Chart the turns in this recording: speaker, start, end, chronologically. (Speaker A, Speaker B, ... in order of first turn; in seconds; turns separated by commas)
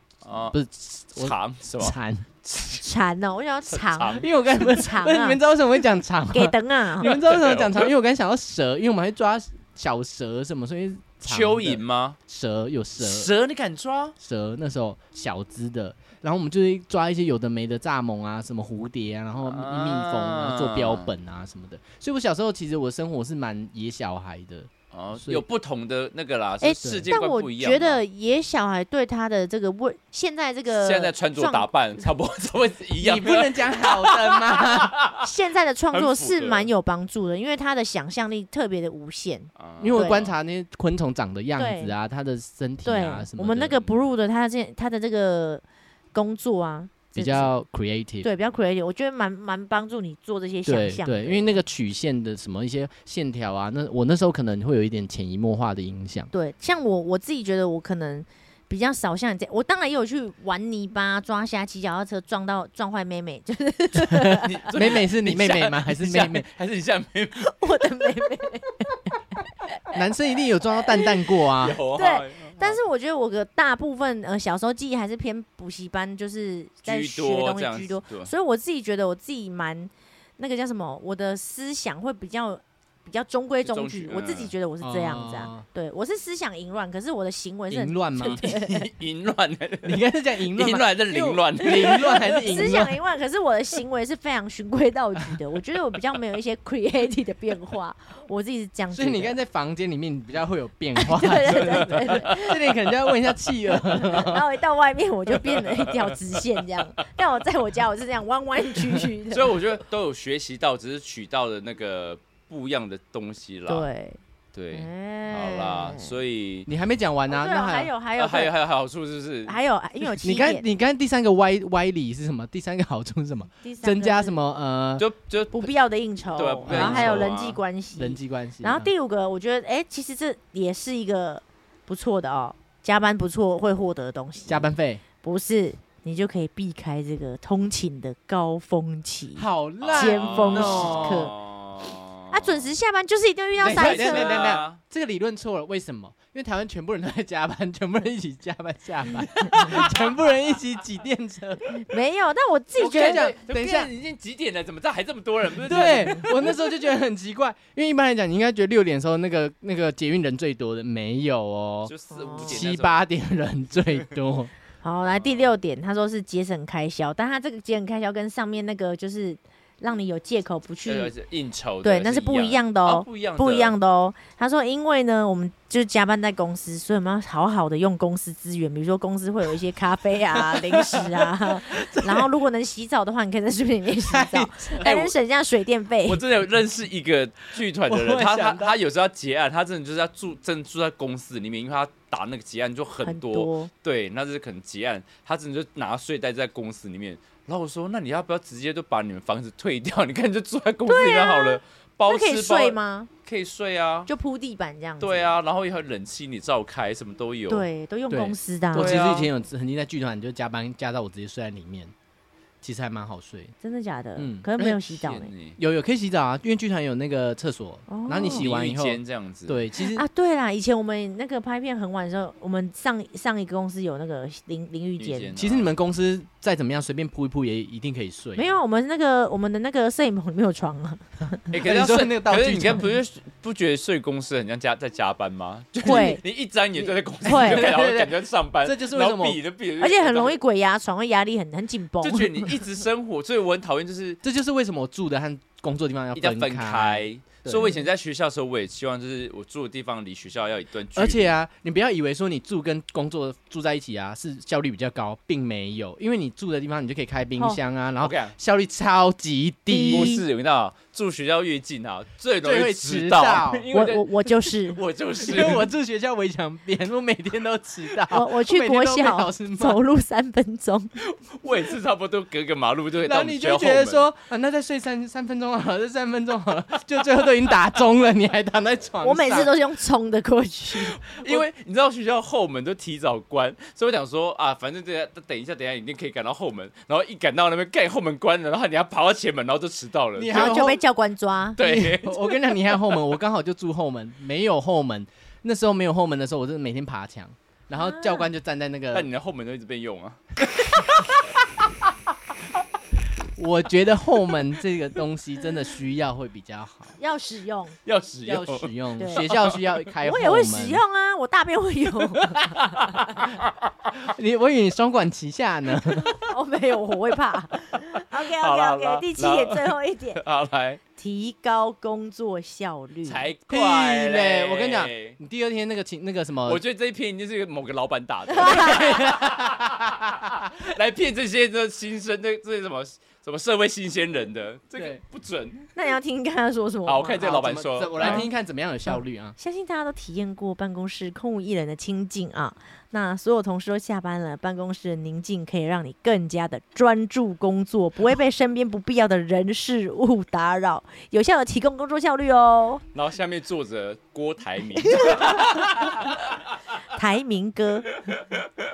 Speaker A: 0.2-0.6, Speaker B: 0.5-2.3, Speaker A: 1.1-2.9, Speaker C: 2.8-5.4, Speaker A: 3.7-4.3, Speaker B: 4.2-13.3, Speaker C: 6.3-7.1, Speaker A: 7.0-7.9, Speaker A: 11.2-12.2, Speaker A: 13.0-14.1, Speaker B: 14.2-25.4, Speaker A: 19.4-21.1, Speaker A: 24.9-28.0, Speaker C: 26.6-31.7, Speaker B: 26.8-27.1, Speaker A: 30.7-35.2, Speaker B: 33.0-34.9, Speaker C: 35.2-40.3, Speaker A: 35.9-36.7, Speaker A: 39.6-40.3, Speaker B: 39.8-43.8, Speaker C: 41.5-42.0, Speaker C: 42.8-45.6, Speaker C: 46.1-47.5, Speaker B: 47.1-48.3, Speaker C: 48.2-51.5, Speaker B: 50.6-56.3, Speaker C: 56.3-65.0, Speaker B: 64.1-66.5, Speaker A: 64.4-67.5, Speaker C: 67.3-69.0, Speaker B: 69.9-71.8, Speaker A: 71.5-72.8, Speaker C: 71.9-88.9, Speaker A: 76.8-78.3, Speaker A: 83.6-84.5, Speaker B: 84.8-85.6, Speaker B: 87.7-88.4, Speaker A: 88.2-92.3, Speaker B: 89.8-93.0, Speaker C: 91.6-99.3, Speaker B: 98.9-104.4, Speaker C: 101.0-102.5, Speaker A: 101.5-102.5, Speaker C: 103.8-109.7, Speaker A: 105.4-106.4, Speaker A: 109.3-113.8, Speaker C: 113.7-114.2, Speaker A: 114.5-116.7, Speaker C: 114.7-116.1, Speaker B: 116.7-117.9, Speaker C: 117.3-118.5, Speaker A: 118.2-119.6, Speaker C: 119.5-120.7, Speaker B: 120.2-125.0, Speaker C: 123.6-124.3, Speaker A: 125.0-125.7, Speaker C: 125.5-134.7, Speaker A: 126.3-127.6, Speaker B: 126.7-127.3, Speaker B: 128.0-128.9, Speaker B: 134.5-135.0, Speaker C: 135.2-141.3, Speaker B: 139.4-141.3, Speaker A: 139.8-142.7, Speaker C: 142.3-144.6, Speaker B: 143.6-151.8, Speaker A: 143.6-144.8, Speaker A: 149.5-149.9, Speaker C: 151.7-153.3, Speaker B: 152.8-153.9, Speaker A: 152.8-156.6, Speaker B: 155.6-161.9, Speaker A: 161.8-163.0, Speaker C: 162.1-162.7, Speaker B: 162.4-164.5, Speaker C: 164.8-171.1, Speaker A: 165.1-165.4, Speaker A: 170.8-173.8, Speaker C: 171.8-186.2, Speaker B: 180.5-182.2, Speaker B: 184.1-185.0, Speaker A: 186.0-204.1, Speaker B: 187.9-188.8, Speaker C: 193.0-193.7, Speaker C: 200.8-203.1, Speaker C: 204.1-205.3, Speaker A: 205.0-207.7, Speaker C: 207.5-208.9, Speaker B: 208.1-211.9, Speaker A: 208.7-209.3, Speaker B: 212.6-213.5, Speaker C: 213.6-215.3, Speaker B: 214.2-214.8, Speaker A: 214.8-215.6, Speaker B: 215.6-220.0, Speaker C: 217.9-218.5, Speaker A: 218.1-219.6, Speaker C: 219.8-225.3, Speaker A: 225.0-225.7, Speaker B: 225.3-228.5, Speaker C: 228.3-231.4, Speaker A: 231.5-240.4, Speaker B: 231.6-232.9, Speaker C: 235.8-236.2, Speaker B: 236.8-239.4, Speaker C: 237.2-237.7, Speaker C: 239.8-242.7, Speaker A: 242.0-244.2, Speaker B: 244.2-247.7, Speaker A: 246.2-251.3, Speaker B: 250.9-260.2, Speaker A: 258.0-258.3, Speaker C: 259.7-260.2, Speaker A: 259.9-265.7, Speaker B: 262.4-263.7, Speaker C: 263.7-264.8, Speaker B: 265.2-269.8, Speaker C: 268.1-270.9, Speaker A: 271.0-274.0, Speaker B: 273.0-279.5, Speaker C: 279.0-281.0, Speaker A: 281.0-290.7, Speaker B: 290.2-290.8, Speaker C: 290.3-291.6, Speaker A: 291.6-293.0, Speaker B: 291.6-299.1, Speaker C: 297.7-298.3, Speaker A: 298.9-301.9, Speaker B: 303.4-306.9, Speaker C: 307.0-307.8, Speaker A: 307.9-309.8, Speaker B: 308.2-310.8, Speaker C: 309.0-309.3, Speaker C: 310.0-313.2, Speaker A: 312.2-313.5, Speaker B: 314.0-316.2, Speaker C: 315.9-320.2, Speaker A: 317.8-320.8, Speaker C: 320.9-323.3, Speaker A: 323.0-325.2, Speaker B: 323.5-326.6, Speaker A: 326.4-335.7, Speaker C: 328.3-329.0, Speaker B: 328.5-330.4, Speaker C: 335.7-338.3, Speaker A: 336.9-338.2, Speaker B: 337.2-339.4, Speaker C: 338.9-352.8, Speaker A: 352.9-356.5, Speaker C: 354.8-355.6, Speaker C: 356.9-357.9, Speaker A: 358.1-358.4